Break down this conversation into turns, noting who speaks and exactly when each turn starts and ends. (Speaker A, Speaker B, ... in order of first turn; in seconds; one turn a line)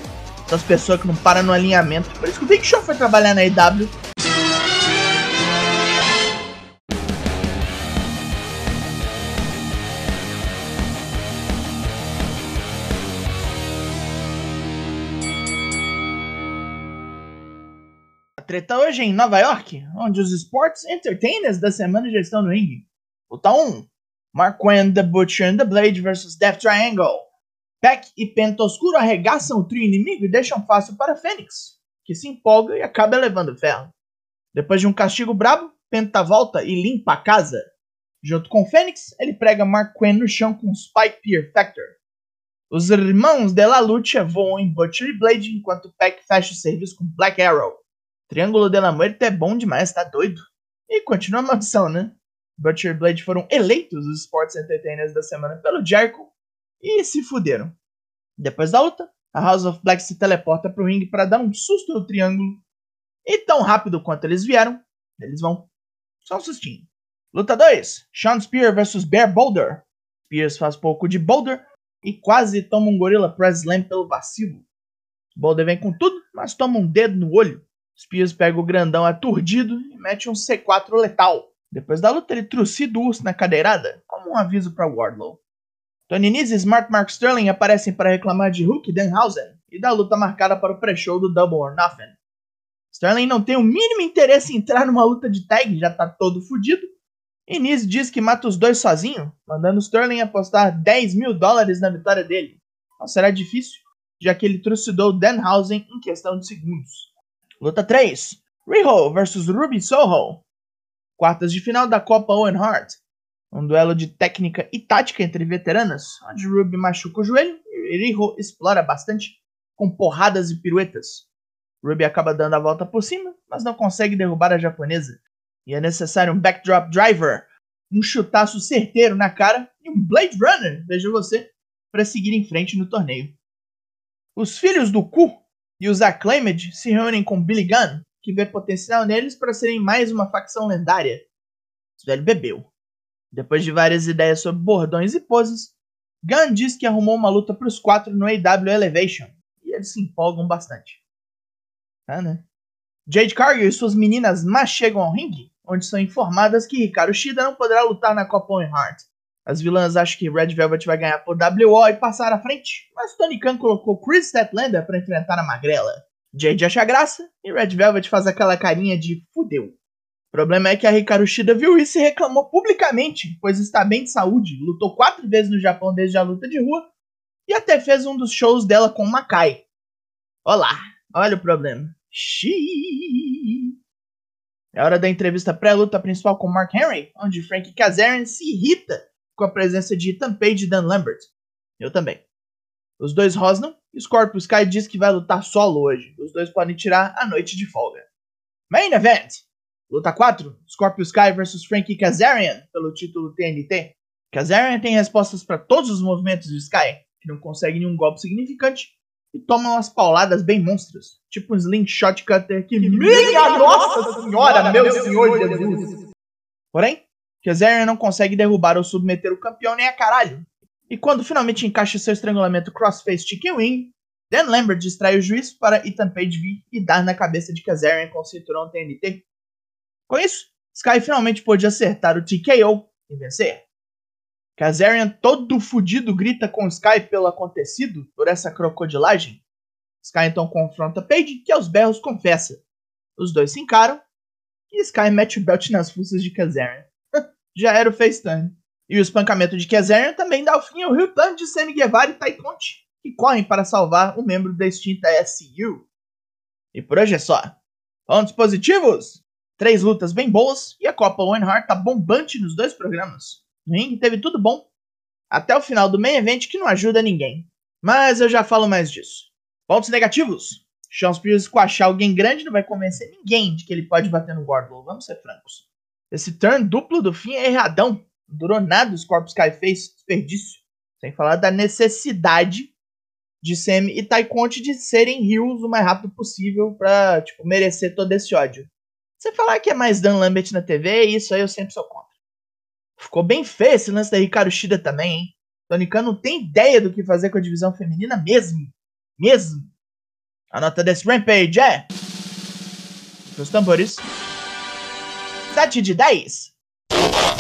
Speaker A: 0.5-3.9
Speaker A: 18.4-27.2
Speaker A: 27.8-33.9
Speaker A: 34.5-37.6
Speaker A: 38.2-42.0
Speaker A: 42.7-57.7
Speaker A: 58.4-62.6
Speaker A: 63.2-65.7
Speaker A: 66.2-74.7
Speaker A: 75.3-85.4
Speaker A: 86.1-92.2
Speaker A: 92.9-96.9
Speaker A: 97.5-107.1
Speaker A: 107.6-110.4
Speaker A: 111.2-113.0
Speaker A: 113.5-121.3
Speaker A: 121.8-133.3
Speaker A: 134.3-141.3
Speaker A: 141.9-142.7
Speaker A: 143.3-151.0
Speaker A: 152.1-152.4
Speaker A: 153.1-169.8
Speaker A: 170.3-176.8
Speaker A: 177.5-179.6
Speaker A: 180.4-183.7
Speaker A: 184.7-192.2
Speaker A: 193.0-198.1
Speaker A: 198.7-216.0
Speaker A: 216.7-229.2
Speaker A: 230.1-233.6
Speaker A: 234.6-239.4
Speaker A: 240.0-242.6
Speaker A: 243.2-244.0
Speaker A: 244.7-246.9
Speaker A: 247.5-255.9
Speaker A: 256.7-257.6
Speaker A: 258.1-264.7
Speaker A: 265.3-282.7
Speaker A: 283.4-292.2
Speaker A: 293.0-299.6
Speaker A: 300.5-301.9
Speaker A: 303.2-304.1
Speaker A: 305.5-306.5